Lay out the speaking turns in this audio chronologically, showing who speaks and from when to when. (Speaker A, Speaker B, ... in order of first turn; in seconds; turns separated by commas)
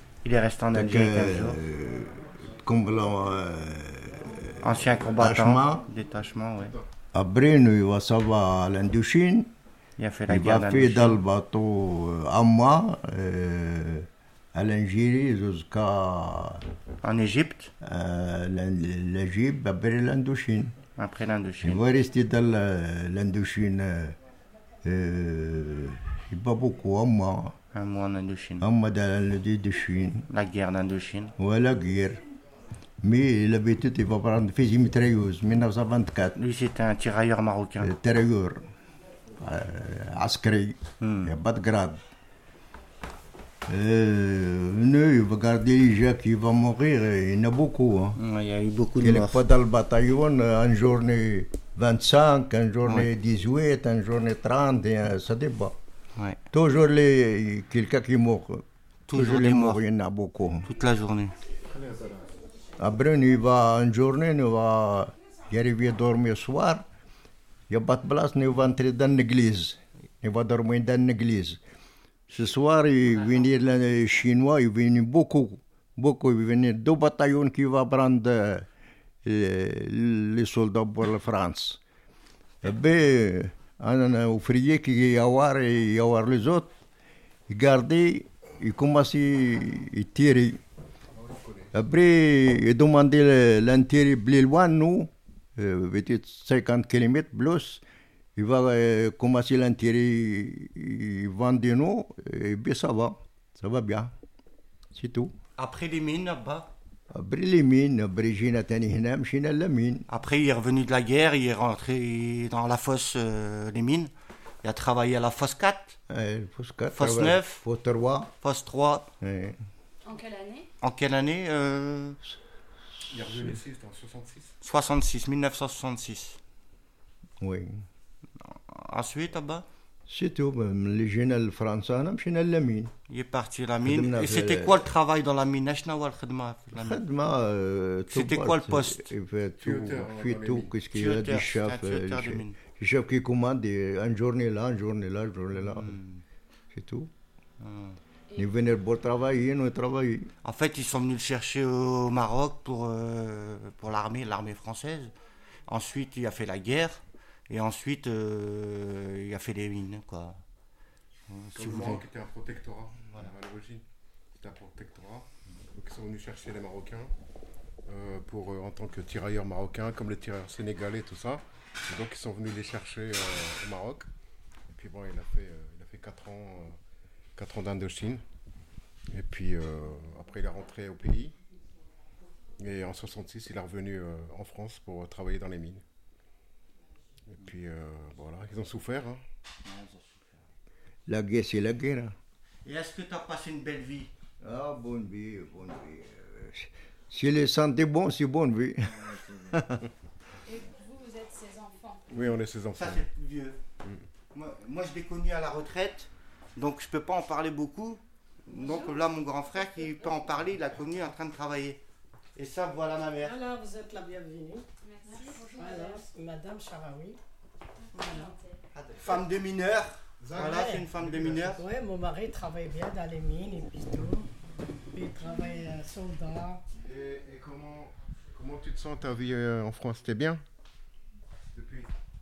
Speaker A: 0.2-1.6, Speaker B: 0.7-5.8, Speaker A: 4.6-6.8, Speaker B: 7.1-9.5, Speaker A: 10.0-11.2, Speaker B: 10.3-16.6, Speaker A: 17.0-17.7, Speaker B: 17.8-20.8, Speaker A: 21.0-21.8, Speaker B: 21.6-24.2, Speaker B: 24.8-27.6, Speaker A: 27.7-28.6, Speaker B: 28.6-30.3, Speaker A: 30.3-31.3, Speaker B: 31.4-32.2, Speaker B: 33.0-36.4, Speaker A: 36.4-37.9, Speaker B: 37.8-38.6, Speaker B: 39.4-42.0, Speaker A: 41.0-41.3, Speaker B: 43.7-48.2, Speaker A: 48.2-49.4, Speaker B: 49.0-55.8, Speaker A: 52.8-53.1, Speaker A: 56.2-56.4, Speaker B: 56.5-60.7, Speaker A: 59.1-59.8, Speaker A: 60.6-61.4, Speaker C: 61.7-62.3, Speaker B: 62.8-66.8, Speaker B: 67.7-71.6, Speaker B: 72.3-78.7, Speaker B: 79.2-81.8, Speaker B: 82.6-86.7, Speaker B: 87.5-90.6, Speaker C: 91.2-91.7, Speaker B: 91.7-97.8, Speaker B: 98.4-104.1, Speaker B: 104.9-105.3, Speaker A: 105.6-106.7, Speaker B: 107.1-110.1, Speaker A: 110.1-114.1, Speaker A: 114.6-116.0, Speaker B: 116.1-118.3, Speaker A: 116.9-117.6, Speaker A: 118.4-119.1, Speaker B: 119.2-119.6, Speaker D: 120.0-120.7, Speaker A: 120.8-122.2, Speaker C: 123.1-124.5, Speaker A: 124.6-126.4, Speaker B: 127.4-127.8, Speaker A: 128.4-129.7, Speaker B: 130.1-132.9, Speaker A: 133.1-137.0, Speaker B: 133.8-134.8, Speaker B: 136.8-145.9, Speaker A: 138.1-139.1, Speaker C: 139.6-140.7, Speaker A: 140.9-142.6, Speaker A: 145.6-146.2, Speaker B: 146.7-147.1, Speaker A: 147.6-148.0, Speaker B: 148.4-150.3, Speaker A: 150.4-155.2, Speaker A: 155.7-160.4, Speaker A: 161.3-162.1, Speaker C: 161.6-163.9, Speaker A: 163.1-163.3, Speaker C: 164.4-167.1, Speaker C: 167.9-174.1, Speaker C: 174.7-176.8, Speaker C: 177.4-178.2, Speaker C: 179.1-181.4, Speaker C: 182.6-185.8, Speaker C: 187.3-189.2, Speaker A: 189.6-190.4, Speaker B: 191.1-192.1, Speaker A: 192.7-194.1, Speaker B: 194.4-199.8, Speaker A: 198.8-199.7, Speaker D: 200.5-202.0, Speaker C: 202.1-203.1, Speaker A: 202.7-203.6, Speaker A: 204.3-211.8, Speaker A: 212.4-213.4, Speaker E: 213.2-217.2, Speaker D: 214.8-216.0, Speaker E: 217.9-218.3, Speaker D: 217.9-218.5, Speaker A: 218.8-221.6, Speaker C: 220.2-221.6, Speaker E: 220.3-220.9, Speaker E: 221.5-224.3, Speaker E: 224.9-226.6, Speaker C: 226.8-230.4, Speaker C: 231.5-231.9